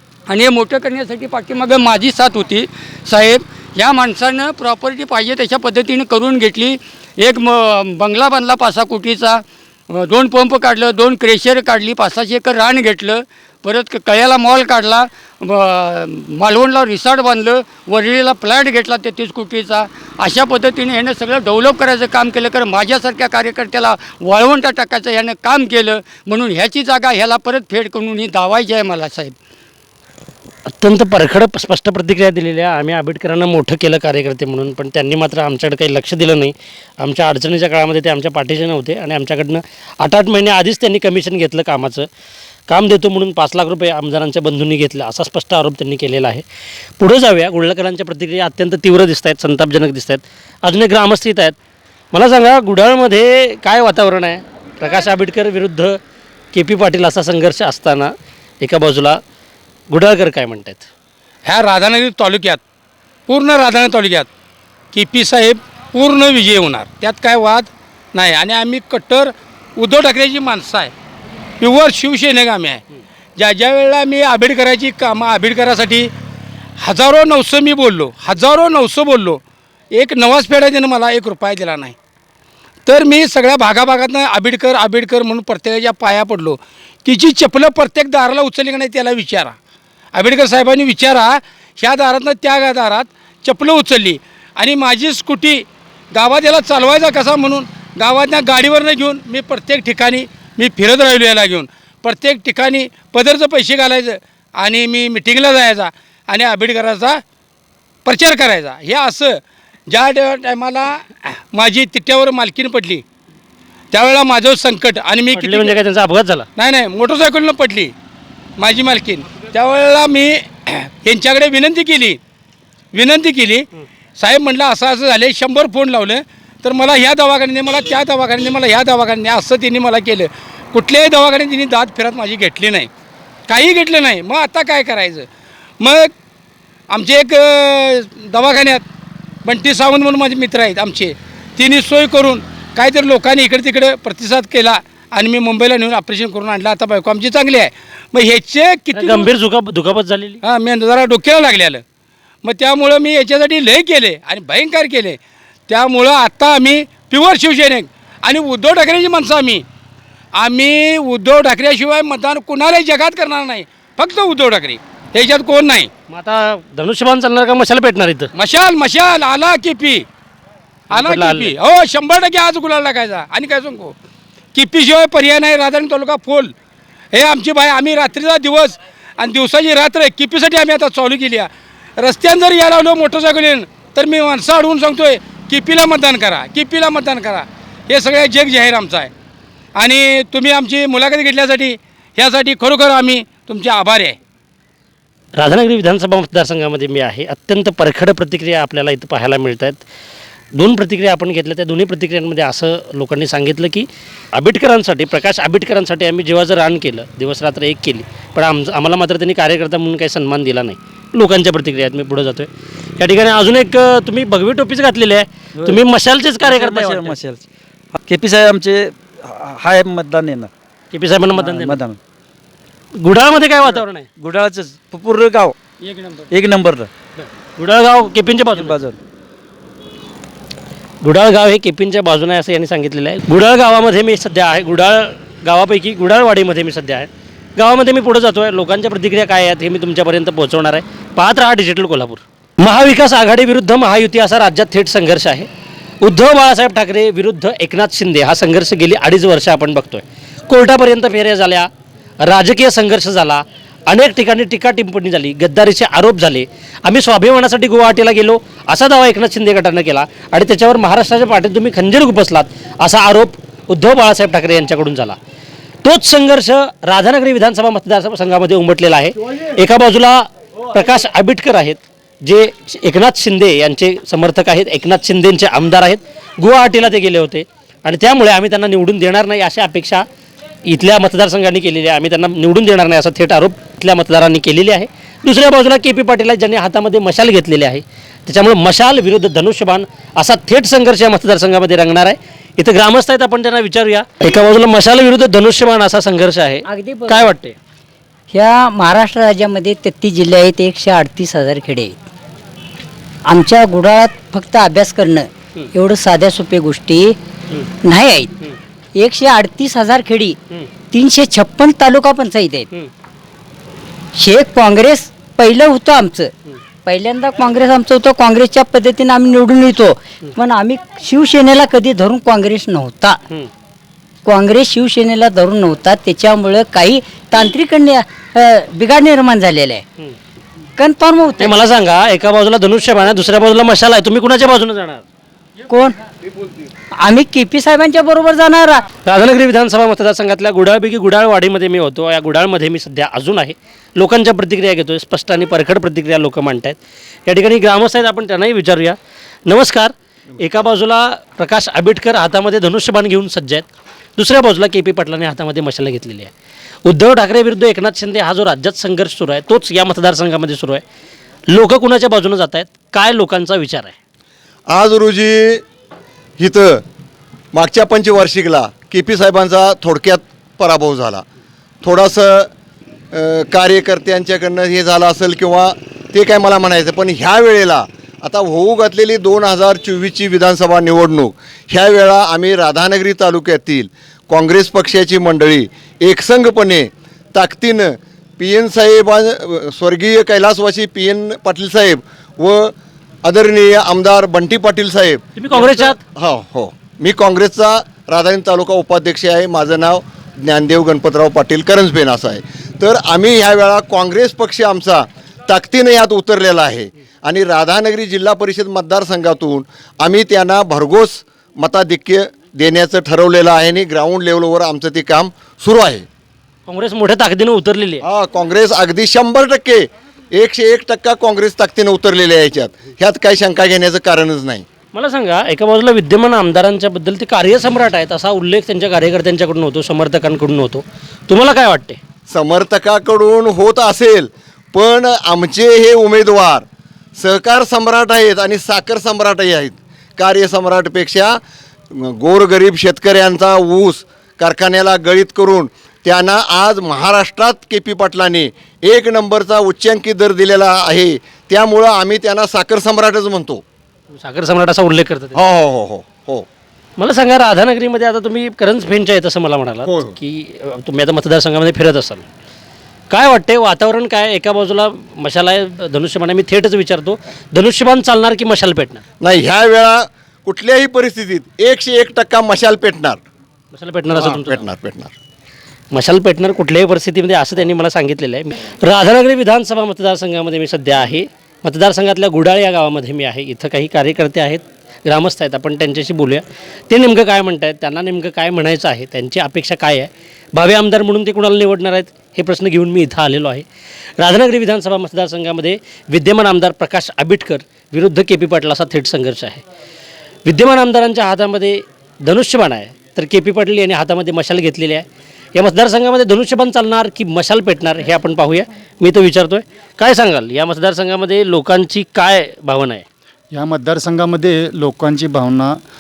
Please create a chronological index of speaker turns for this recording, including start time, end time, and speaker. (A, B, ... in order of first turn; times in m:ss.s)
0:00.3-0:29.4 A
0:30.8-0:42.1 B
0:42.7-0:46.4 B
0:47.0-0:51.6 B
0:52.1-0:56.0 B
0:56.5-0:59.2 B
0:59.9-1:00.9 B
1:01.4-1:02.6 C
1:03.3-1:04.3 C
1:04.9-1:10.9 C
1:11.6-1:12.8 C
1:13.4-1:16.1 C
1:16.8-1:19.4 C
1:19.9-1:21.9 C
1:22.9-1:29.6 C
1:30.1-1:47.2 C
1:48.0-1:53.0 C
1:53.9-1:55.8 C
1:55.3-1:56.5 B
1:56.6-1:57.9 C
1:58.6-2:02.2 C
2:02.9-2:03.7 C
2:04.2-2:12.9 C
2:13.5-2:15.3 C
2:15.8-2:16.1 C
2:16.9-2:18.8 C
2:19.4-2:29.3 C
2:28.9-2:30.4 B
2:30.4-2:31.8 C
2:32.4-2:39.6 C
2:40.4-2:45.9 C
2:46.1-2:48.3 B
2:48.4-2:50.1 C
2:50.9-2:51.5 B
2:50.9-2:53.9 C
2:54.5-2:56.5 C
2:57.1-3:09.1 C
3:09.8-3:14.2 C
3:15.4-3:19.8 B
3:20.5-3:32.5 B
3:33.0-3:37.2 B
3:36.4-3:37.4 D
3:38.1-3:40.5 D
3:40.9-3:41.8 B
3:41.4-3:42.0 D
3:43.0-3:44.1 B
3:43.6-3:45.6 D
3:45.8-3:46.3 A
3:46.3-3:46.9 D
3:47.2-3:48.8 B
3:48.6-3:49.0 D
3:51.0-4:05.5 B
4:06.0-4:11.7 B
4:12.2-4:25.2 B
4:25.8-4:40.0 B
4:40.6-4:57.5 B
4:56.7-4:57.3 E
4:58.3-5:02.0 E
5:03.3-5:07.2 E
5:07.8-5:08.3 E
5:09.0-5:10.4 E
5:10.9-5:12.7 E
5:14.2-5:16.3 E
5:16.9-5:23.2 E
5:24.2-5:29.8 E
5:30.8-5:31.5 E
5:31.4-5:35.0 B
5:35.7-5:36.0 E
5:37.0-5:38.8 E
5:39.0-5:53.6 B
5:54.2-5:56.3 B
5:56.9-6:00.8 B
6:01.5-6:04.0 B
6:04.7-6:05.6 F
6:06.4-6:06.8 F
6:07.5-6:11.2 F
6:11.8-6:12.5 F
6:13.1-6:56.0 F
6:35.4-6:36.0 B
6:56.7-6:58.0 B
6:58.0-7:04.6 F
7:04.9-7:12.0 B
7:12.3-7:16.6 F
7:17.2-7:21.4 F
7:21.9-7:33.6 F
7:34.2-7:35.4 B
7:35.3-7:36.5 F
7:37.0-7:42.2 B
7:39.8-7:40.2 F
7:43.1-7:49.0 B
7:49.2-7:53.2 F
7:53.8-7:54.6 B
7:54.1-7:55.1 F
7:55.9-8:13.6 B
8:14.2-8:19.6 B
8:20.4-8:33.0 B
8:33.5-8:35.8 G